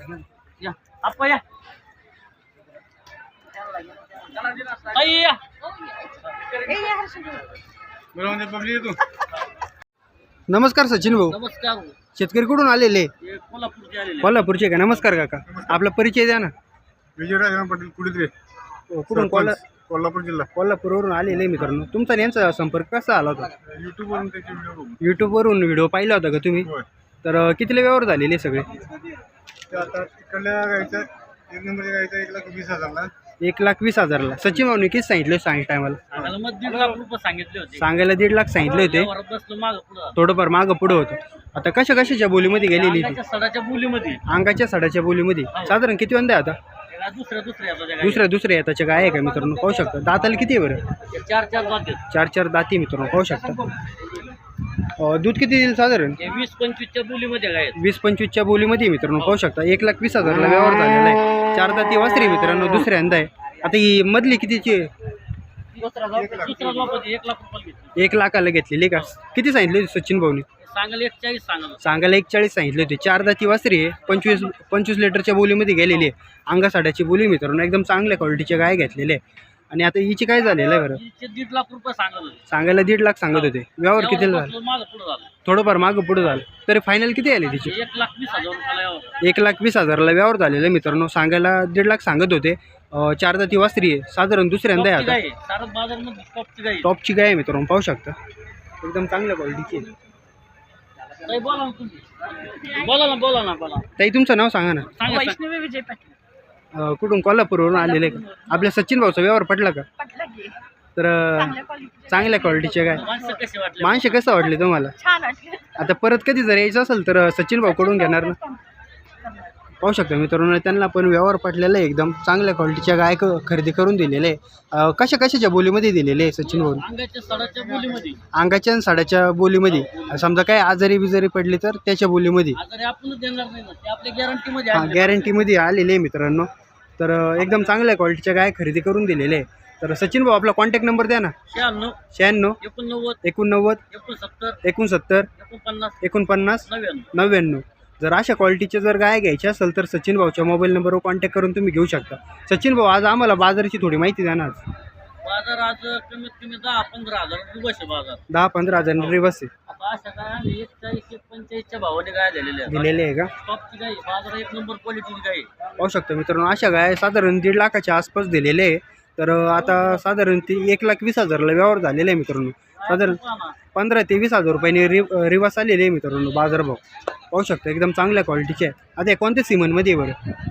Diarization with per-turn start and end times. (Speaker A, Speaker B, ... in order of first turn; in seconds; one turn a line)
Speaker A: 0.6-1.4
Speaker A: 4.2-5.5
Speaker A: 6.0-6.8
Speaker B: 6.7-7.5
Speaker C: 8.1-9.0
Speaker D: 10.5-11.4
Speaker A: 11.3-11.9
Speaker D: 12.2-13.1
Speaker A: 13.2-14.5
Speaker D: 14.2-16.5
Speaker C: 15.5-15.8
Speaker C: 17.2-18.3
Speaker D: 18.9-19.6
Speaker C: 19.1-20.5
Speaker D: 20.5-23.5
Speaker C: 23.6-24.9
Speaker D: 25.0-26.7
Speaker D: 27.2-28.8
Speaker C: 29.7-33.1
Speaker D: 33.4-36.1
Speaker A: 36.1-37.9
Speaker D: 37.8-39.1
Speaker A: 38.6-40.2
Speaker D: 40.2-43.2
Speaker A: 42.7-44.2
Speaker D: 44.3-46.6
Speaker A: 46.9-48.3
Speaker D: 48.0-50.8
Speaker A: 51.0-52.0
Speaker D: 52.1-53.7
Speaker D: 54.8-56.2
Speaker A: 56.2-57.8
Speaker D: 57.8-64.9
Speaker A: 65.8-68.0
Speaker C: 66.1-66.6
Speaker D: 68.0-70.5
Speaker A: 70.6-71.8
Speaker D: 71.8-79.2
Speaker D: 79.7-81.0
Speaker A: 80.9-82.4
Speaker D: 82.5-84.5
Speaker A: 83.3-85.3
Speaker D: 85.4-87.8
Speaker A: 87.6-89.2
Speaker D: 89.2-95.2
Speaker A: 94.8-96.9
Speaker D: 96.8-98.2
Speaker D: 98.8-99.9
Speaker A: 101.2-103.9
Speaker D: 104.0-105.0
Speaker A: 104.9-105.4
Speaker B: 105.1-106.2
Speaker D: 106.7-109.9
Speaker B: 107.8-108.5
Speaker B: 110.0-110.6
Speaker D: 111.0-113.1
Speaker B: 111.4-112.9
Speaker A: 112.9-114.2
Speaker D: 113.8-115.0
Speaker B: 115.0-115.8
Speaker D: 115.8-118.4
Speaker B: 117.7-118.6
Speaker D: 119.8-126.9
Speaker A: 126.4-128.2
Speaker D: 128.3-132.6
Speaker A: 129.6-130.3
Speaker A: 132.5-135.4
Speaker D: 134.7-141.3
Speaker A: 141.5-142.0
Speaker D: 142.1-142.6
Speaker A: 142.6-143.2
Speaker D: 143.2-143.8
Speaker A: 143.9-144.6
Speaker D: 144.6-145.3
Speaker A: 145.4-146.0
Speaker D: 146.0-154.6
Speaker A: 146.6-147.1
Speaker A: 155.2-158.2
Speaker D: 158.3-159.5
Speaker A: 158.9-165.5
Speaker D: 162.7-163.3
Speaker D: 165.8-173.2
Speaker A: 172.8-173.6
Speaker D: 173.7-176.8
Speaker D: 177.3-180.2